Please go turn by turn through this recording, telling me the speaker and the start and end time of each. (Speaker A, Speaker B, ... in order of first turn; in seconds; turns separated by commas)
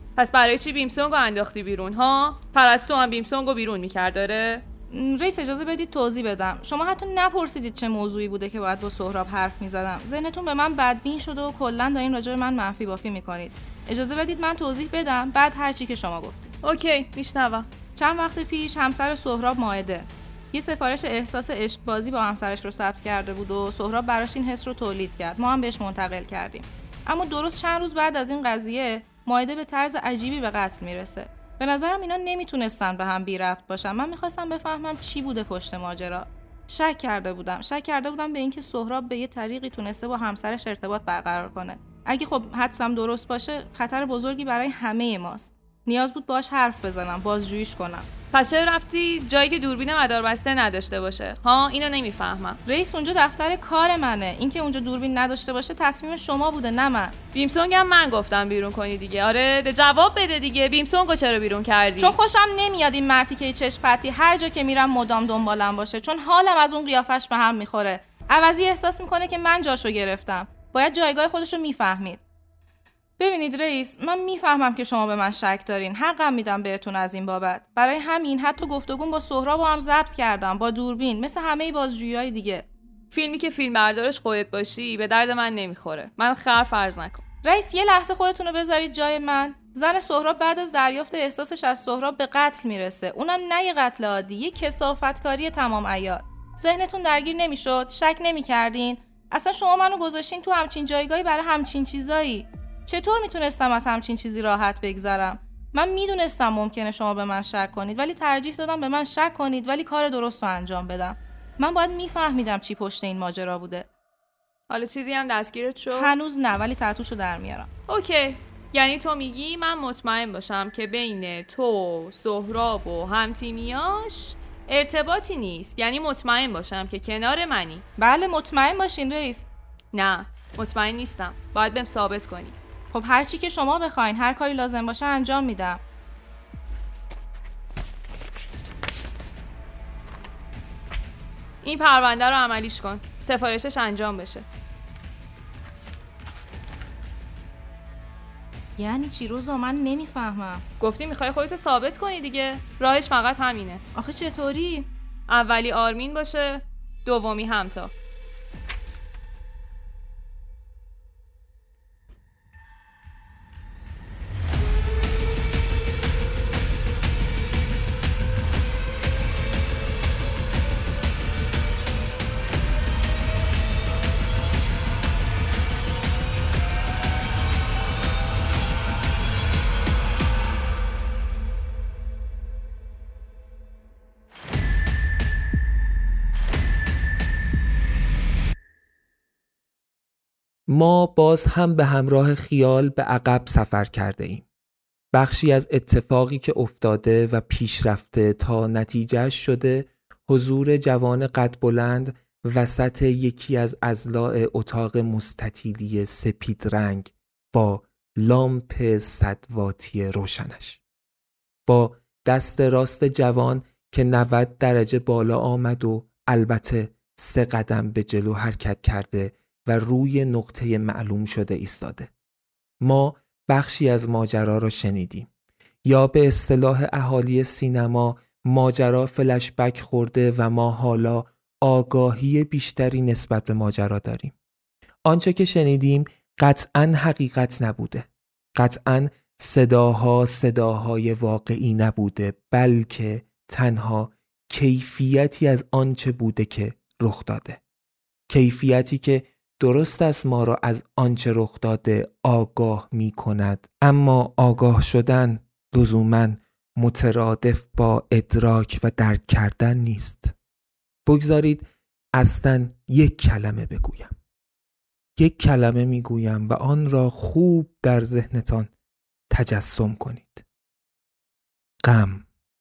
Speaker A: 0.2-4.6, Speaker B: 4.9-16.5, Speaker A: 16.6-17.7, Speaker B: 17.9-48.1, Speaker A: 48.3-52.6, Speaker B: 52.6-57.1, Speaker A: 57.3-62.2, Speaker B: 62.0-72.2, Speaker B: 73.2-82.7, Speaker A: 83.1-87.2, Speaker B: 87.4-113.9, Speaker A: 114.7-116.1, Speaker B: 115.9-117.7, Speaker A: 117.9-127.8, Speaker B: 128.0-129.5, Speaker A: 129.9-132.6, Speaker B: 132.9-135.8, Speaker A: 141.6-144.4, Speaker B: 148.8-150.6, Speaker A: 150.8-153.8, Speaker B: 153.9-154.9, Speaker A: 155.3-157.9, Speaker C: 190.7-194.4, Speaker C: 195.1-210.8, Speaker C: 211.7-222.1, Speaker C: 222.8-225.3, Speaker C: 225.8-234.3, Speaker C: 235.0-247.6, Speaker C: 248.3-260.3, Speaker C: 261.1-264.1, Speaker C: 265.1-268.7, Speaker C: 269.3-270.4, Speaker C: 271.8-272.2